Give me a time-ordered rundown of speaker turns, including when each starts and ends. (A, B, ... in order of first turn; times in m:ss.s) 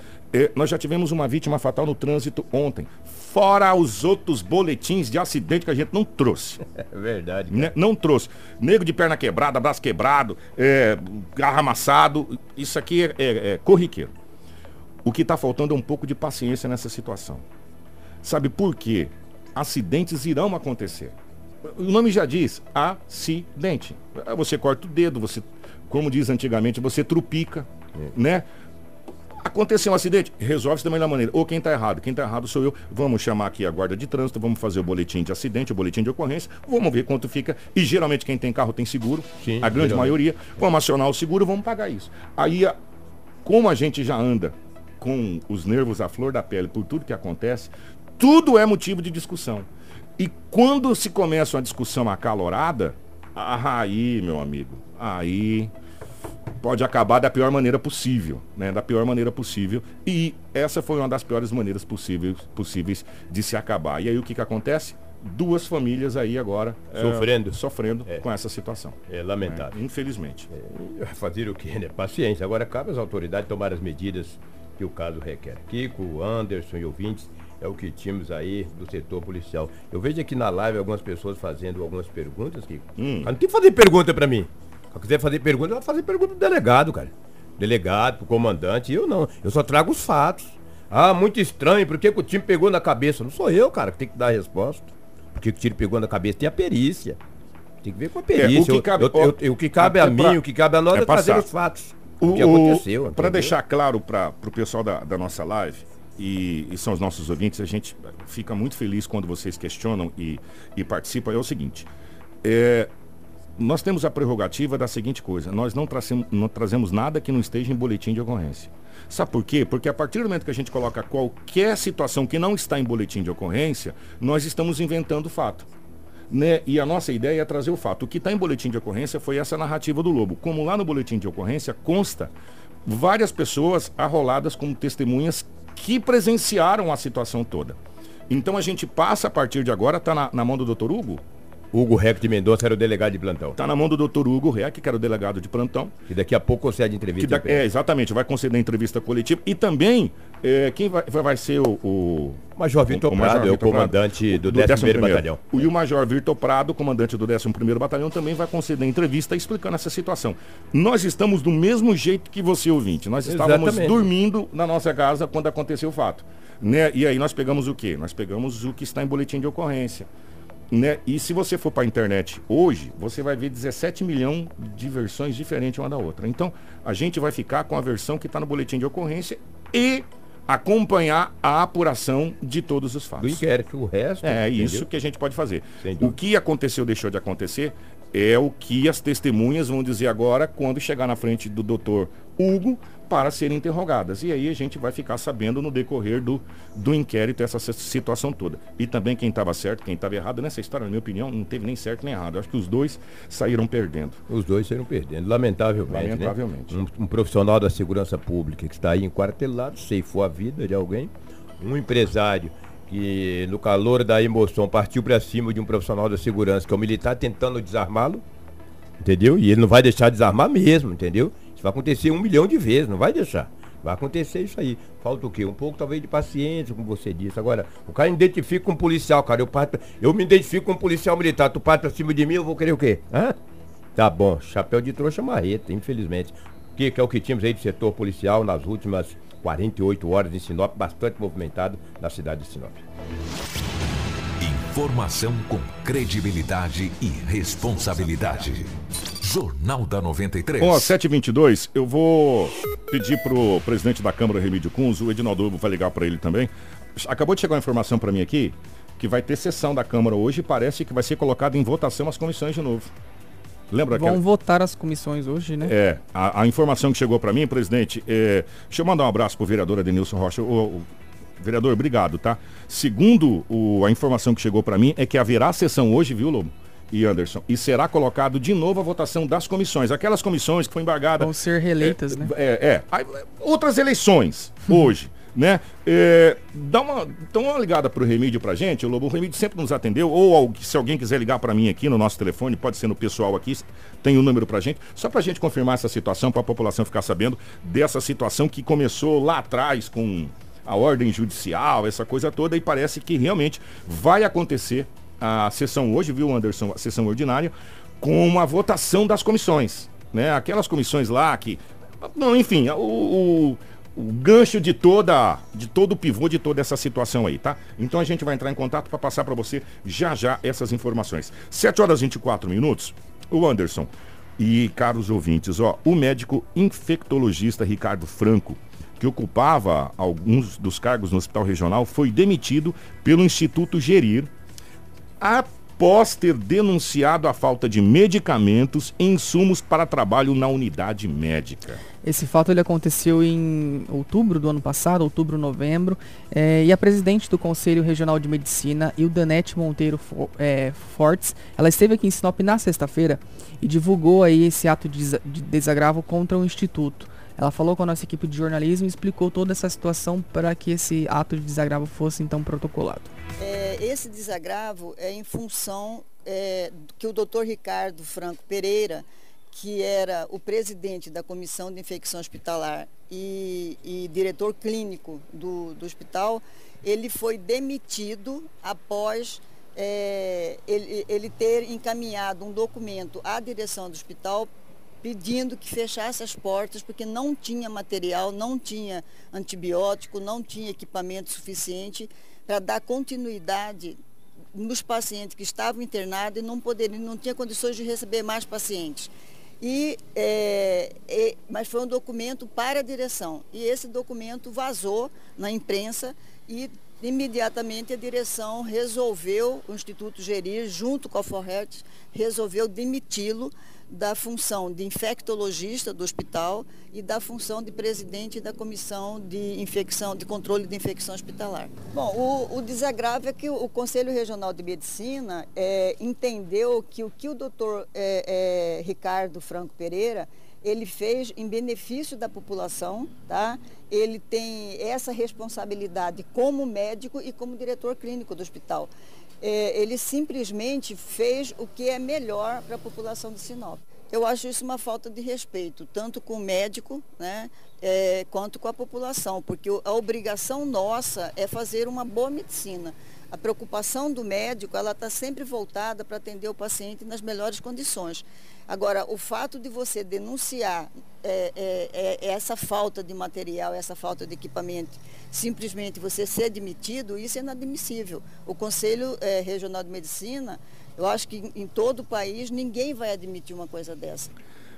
0:00.3-0:06.6 A
0:06.7-0:07.7 B
0:07.5-0:14.1 A
0:15.0-0:17.4 A
0:18.2-0:28.5 A
0:29.4-0:42.8 A
0:39.4-0:40.2 B
0:43.4-0:55.7 A
0:56.6-1:10.5 A
1:06.9-1:08.2 B
1:09.1-1:09.8 B
1:10.5-1:37.2 B
1:23.0-1:23.3 A
1:37.8-1:43.6 B
1:38.3-1:40.4 A
1:40.9-1:41.5 A
1:42.2-1:51.9 A
1:52.4-1:52.9 A
1:53.6-2:05.7 A
2:06.3-2:12.3 A
2:12.8-2:17.8 A
2:18.3-2:21.2 A
2:21.7-2:23.6 B
2:23.6-2:25.9 A
2:26.1-2:27.6 B
2:27.2-2:50.1 A
2:32.6-2:35.6 B
2:43.2-2:44.1 B
2:50.7-3:03.4 A
3:03.2-3:04.9 B
3:04.2-3:24.2 A
3:05.8-3:06.2 B
3:24.3-3:38.2 B
3:25.9-3:26.8 A
3:39.0-3:53.4 B
3:54.0-4:02.8 B
4:04.4-4:10.9 C
4:10.6-4:22.9 A
4:23.7-4:24.2 A
4:23.9-4:25.7 D
4:25.6-4:30.9 A
4:31.4-5:34.3 A
4:41.2-4:42.3 D
5:35.2-5:41.8 A
5:42.0-6:03.1 D
6:03.4-6:24.5 E
6:25.0-6:34.0 E
6:34.5-7:18.9 E
7:19.4-7:54.3 E